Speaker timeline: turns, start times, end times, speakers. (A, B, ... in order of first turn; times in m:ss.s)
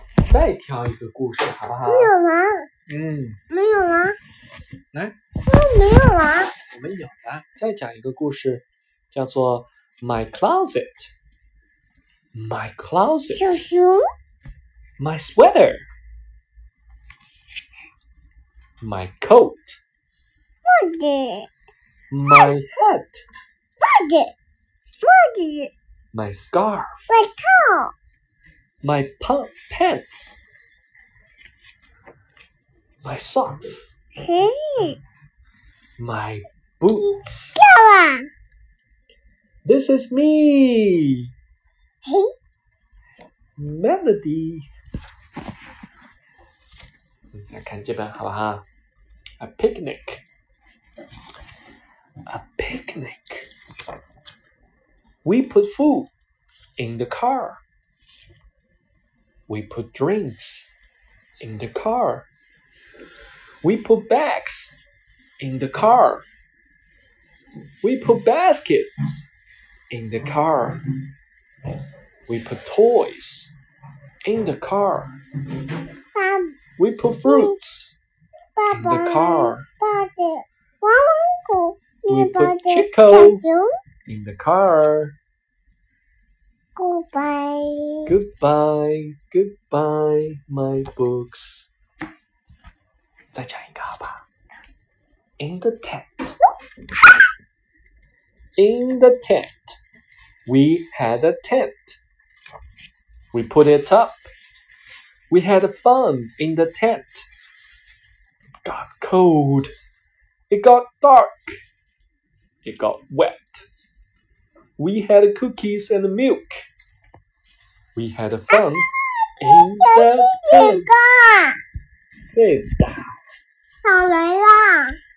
0:00.3-0:02.1 A
0:01.9-0:02.7 B
0:02.9-0:03.4 A
0:03.5-0:04.2 B
0:05.5-0:06.6 B
0:06.7-0:11.1 A
0:12.3-0:13.5 A
0:13.3-0:14.0 B
0:15.0-0:15.8 A
0:18.8-0:19.8 A
0:20.6-0:21.5 B
0:22.1-0:23.2 A
0:23.8-0:24.3 B
0:25.0-0:25.7 B
0:26.1-0:26.9 A
0:27.1-0:27.9 B
0:28.8-0:30.4 A
0:33.0-0:33.9 A
0:34.2-0:35.0 B
0:36.0-0:37.6 A
0:37.6-0:38.3 B
0:39.6-0:41.3 A
0:42.0-0:42.3 B
0:43.6-0:44.7 A
0:47.3-0:48.6 A
0:49.4-0:50.2 A
0:52.3-0:53.5 A
0:55.2-0:56.1 A
0:56.8-0:57.6 A
0:59.5-1:00.7 A
1:01.4-1:02.3 A
1:03.6-1:04.7 A
1:05.4-1:06.2 A
1:07.8-1:09.3 A
1:09.9-1:10.8 A
1:12.3-1:13.5 A
1:14.3-1:15.2 A
1:16.1-1:16.6 B
1:16.8-1:18.0 A
1:17.3-1:17.6 B
1:18.6-1:23.7 B
1:18.7-1:19.6 A
1:22.1-1:23.4 A
1:24.1-1:25.2 A
1:26.8-1:28.1 B
1:28.1-1:31.7 A
1:33.3-1:34.2 A
1:35.4-1:36.4 A
1:38.6-1:39.8 A
1:40.5-1:42.0 A
1:43.3-1:44.2 A
1:45.3-1:47.3 A
1:48.6-1:49.7 A
1:50.5-1:51.6 A
1:52.6-1:53.7 A
1:54.8-1:56.7 A
1:58.0-1:58.9 A
1:58.5-2:01.6 B
1:59.4-2:00.9 A
2:02.3-2:03.2 A
2:03.8-2:05.0 B